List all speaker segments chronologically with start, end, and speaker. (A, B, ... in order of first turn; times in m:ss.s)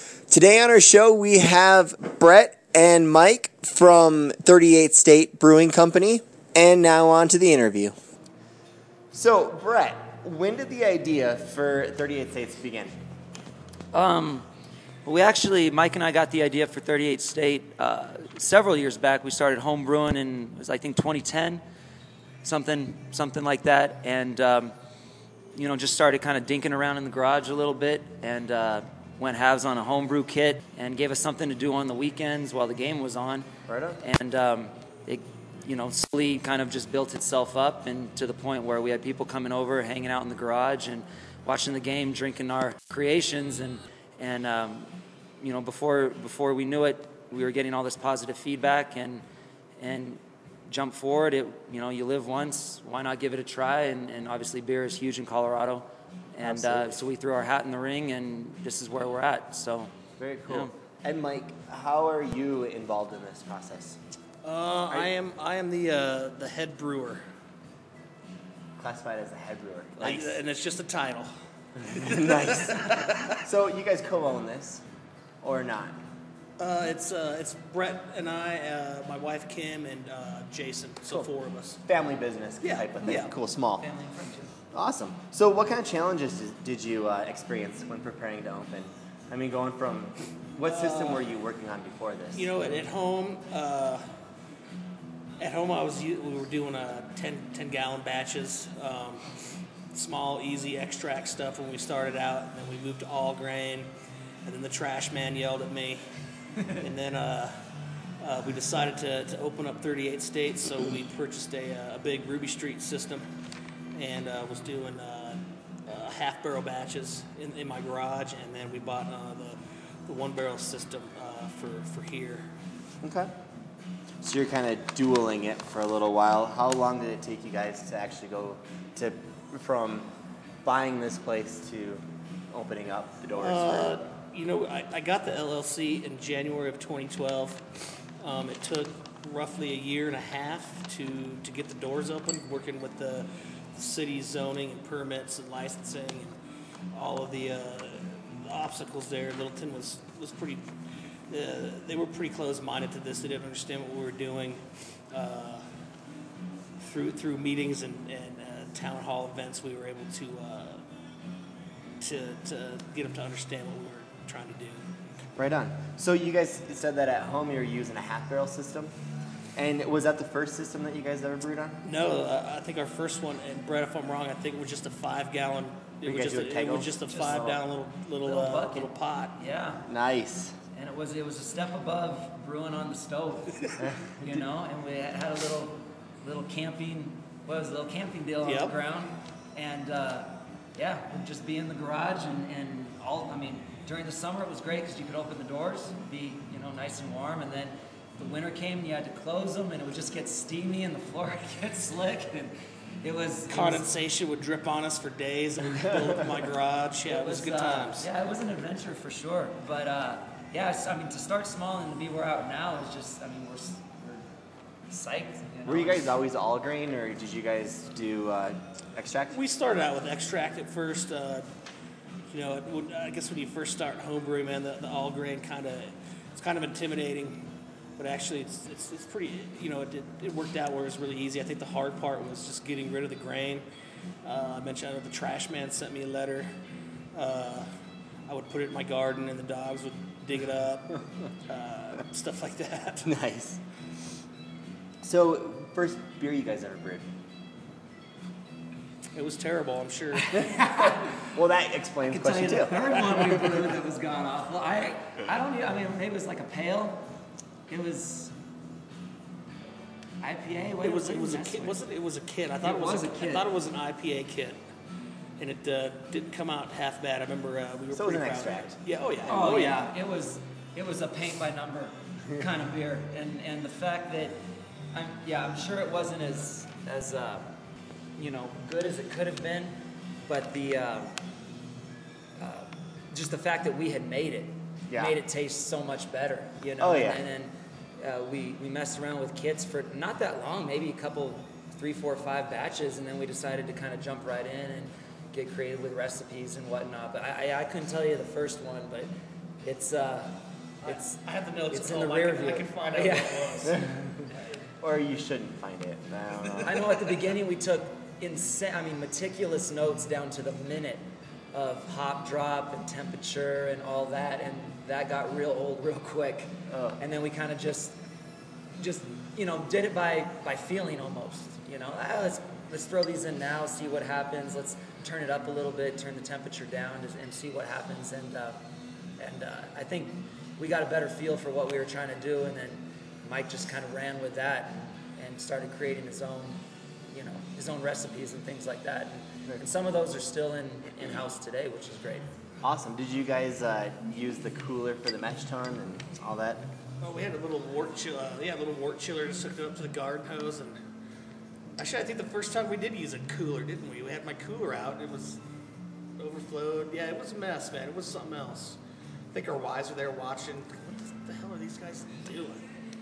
0:00.3-0:08.0 A
0:09.1-0:12.9 A
0:13.9-0:14.5 B
0:15.0-0:21.6 B
0:22.4-0:24.8 B
0:25.6-0:33.5 B
0:33.7-0:34.0 A
0:34.0-0:49.2 B
0:49.8-0:59.9 B
0:56.4-0:57.0 A
1:00.2-1:04.0 A
1:04.4-1:07.2 C
1:08.8-1:10.4 A
1:10.0-1:11.3 C
1:11.8-1:14.8 A
1:11.9-1:13.4 C
1:15.4-1:16.0 A
1:16.6-1:21.8 C
1:21.9-1:23.9 A
1:22.6-1:23.3 C
1:23.8-1:24.6 B
1:24.7-1:32.7 A
1:30.7-1:31.3 C
1:32.3-1:34.0 C
1:35.4-1:39.4 C
1:39.9-1:43.9 C
1:44.4-1:46.0 C
1:46.6-1:47.6 C
1:48.2-1:53.2 C
1:53.9-2:02.4 C
2:03.0-2:03.3 A
2:04.2-2:10.1 A
2:10.6-2:14.0 A
2:13.4-2:17.6 C
2:18.2-2:26.4 C
2:26.9-2:30.6 C
2:31.3-2:35.6 C
2:36.8-2:40.8 C
2:42.0-2:44.8 C
2:45.4-2:48.9 A
2:49.6-2:51.8 A
2:51.8-2:59.4 C
2:56.0-2:57.6 A
2:58.2-2:59.9 B
2:59.9-3:00.6 A
3:00.7-3:03.7 B
3:03.8-3:04.4 A
3:04.2-3:23.9 B
3:08.4-3:08.7 C
3:23.5-3:28.1 C
3:27.1-3:34.3 B
3:34.9-3:36.0 B
3:35.7-3:39.4 A
3:39.3-3:41.5 C
3:42.3-3:47.4 C
3:48.0-3:53.6 C
3:54.2-3:56.5 C
3:57.1-3:57.7 C
3:58.3-4:03.1 C
4:03.0-4:03.6 A
4:05.0-4:07.1 A
4:09.1-4:10.4 C
4:10.3-4:11.2 B
4:11.3-4:13.6 A
4:12.1-4:17.0 B
4:17.7-4:18.3 B
4:20.2-4:21.8 B
4:20.8-4:24.6 C
4:22.6-4:23.5 B
4:25.4-4:29.8 C
4:27.9-4:28.8 A
4:29.3-4:34.4 B
4:34.9-4:37.6 B
4:38.2-4:39.7 B
4:40.3-4:41.2 B
4:42.4-4:59.1 B
4:44.9-4:45.2 A
4:46.8-4:47.2 A
4:59.6-5:01.2 B
5:00.8-5:03.8 C
5:01.7-5:03.8 B
5:03.7-5:04.2 A
5:04.8-5:06.8 A
5:06.6-5:18.0 B
5:16.7-5:17.0 A
5:18.8-5:28.6 B
5:29.2-5:42.3 B
5:42.6-5:46.7 A
5:47.0-5:50.8 C
5:51.8-5:55.4 C
5:56.2-5:58.8 C
5:59.3-6:02.6 C